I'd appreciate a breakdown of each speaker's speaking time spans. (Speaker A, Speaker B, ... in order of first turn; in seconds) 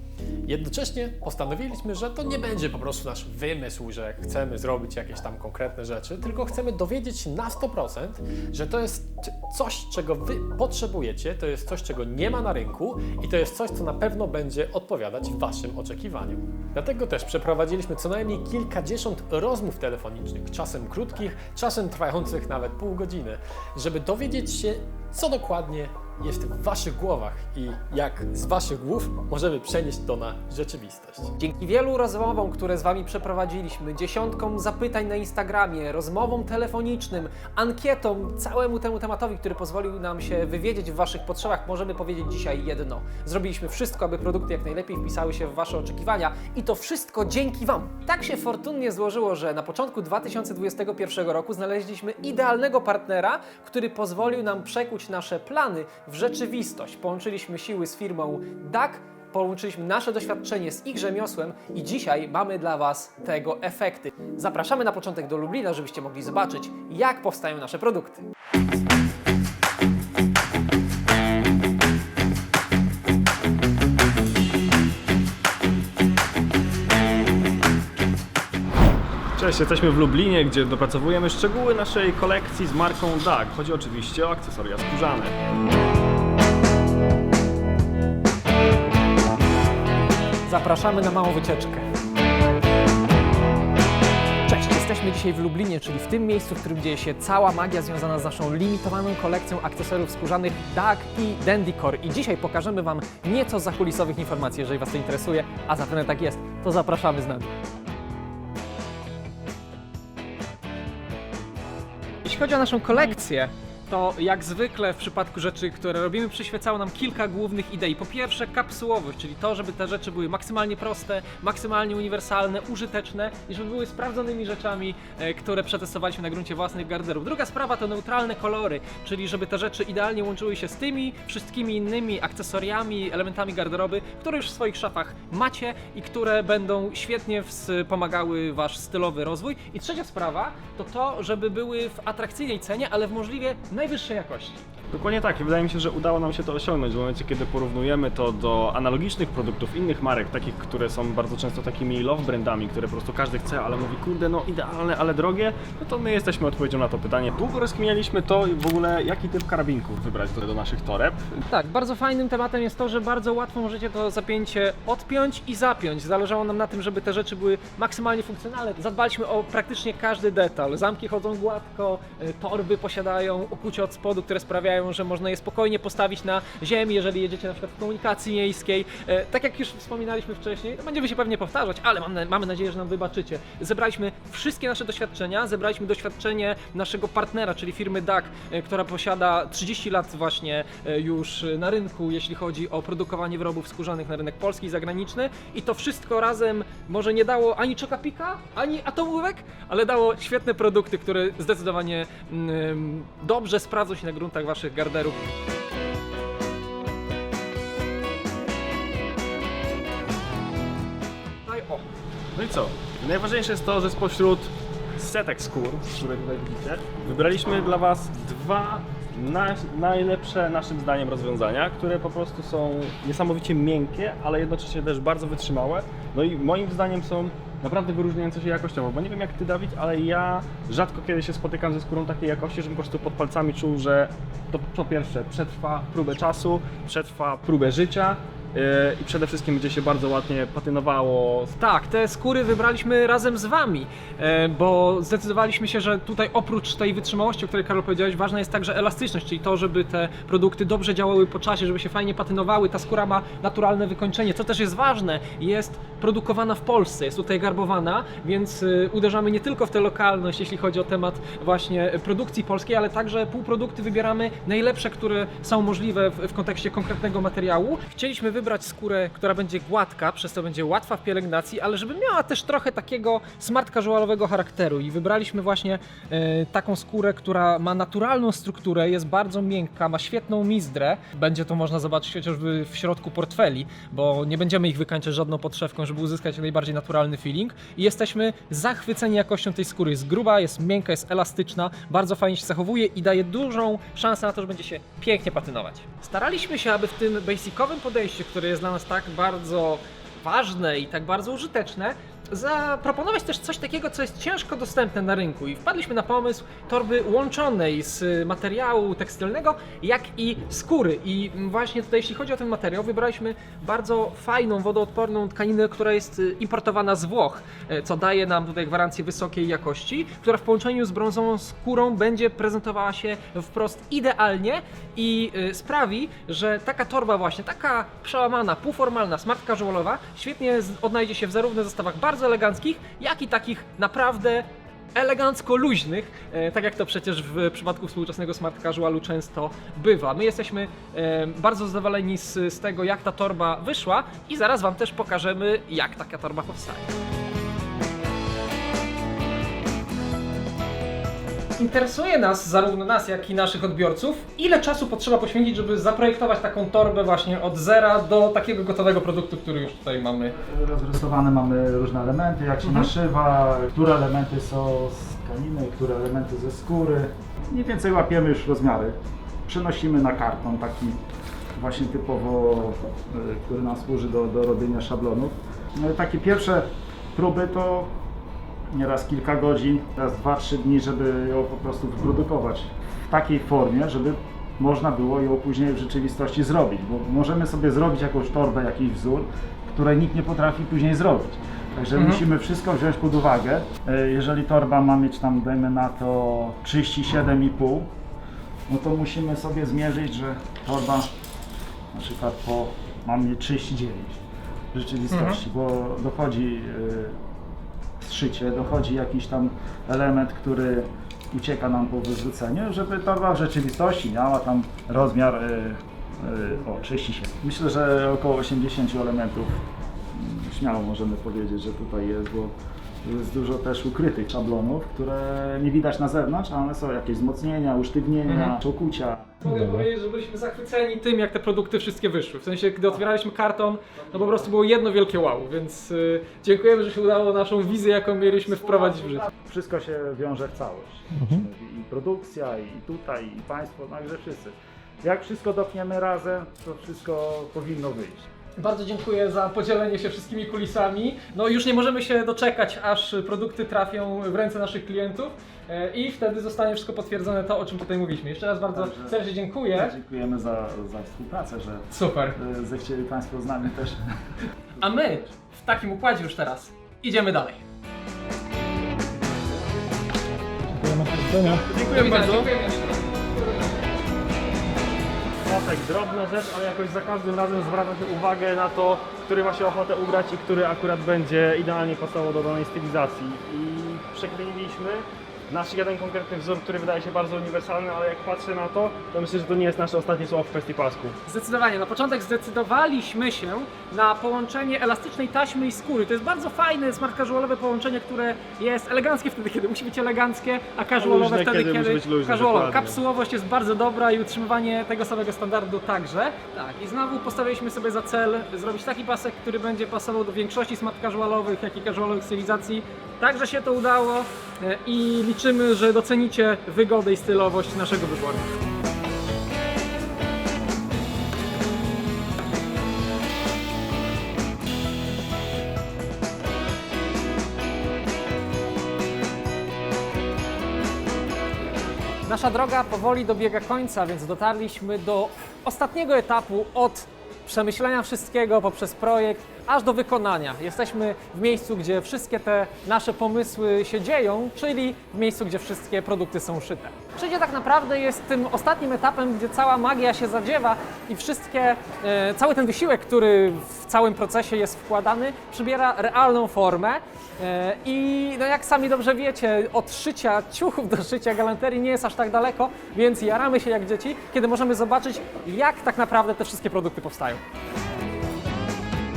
Speaker A: 0.5-31.3, 429.4-429.8
Speaker B: 31.4-68.3, 90.5-91.8, 94.5-107.5, 112.2-144.7, 161.5-205.2, 211.4-211.8, 241.6-346.9, 351.6-360.4, 362.6-362.9, 391.9-392.2, 405.1-405.4, 428.2-428.5, 429.4-439.3, 448.6-459.9, 461.9-462.4, 464.8-467.6, 471.8-473.2, 491.2-518.5, 532.2-567.4
Speaker C: 79.3-85.4, 144.9-161.4, 212.3-241.5, 471.1-472.5, 475.4-491.1, 501.0-503.0
Speaker D: 360.4-371.0, 371.5-377.9, 378.7-397.9, 398.7-401.1, 401.9-404.2, 404.7-407.2, 408.0-429.4, 439.3-448.2, 458.7-459.2, 459.7-464.1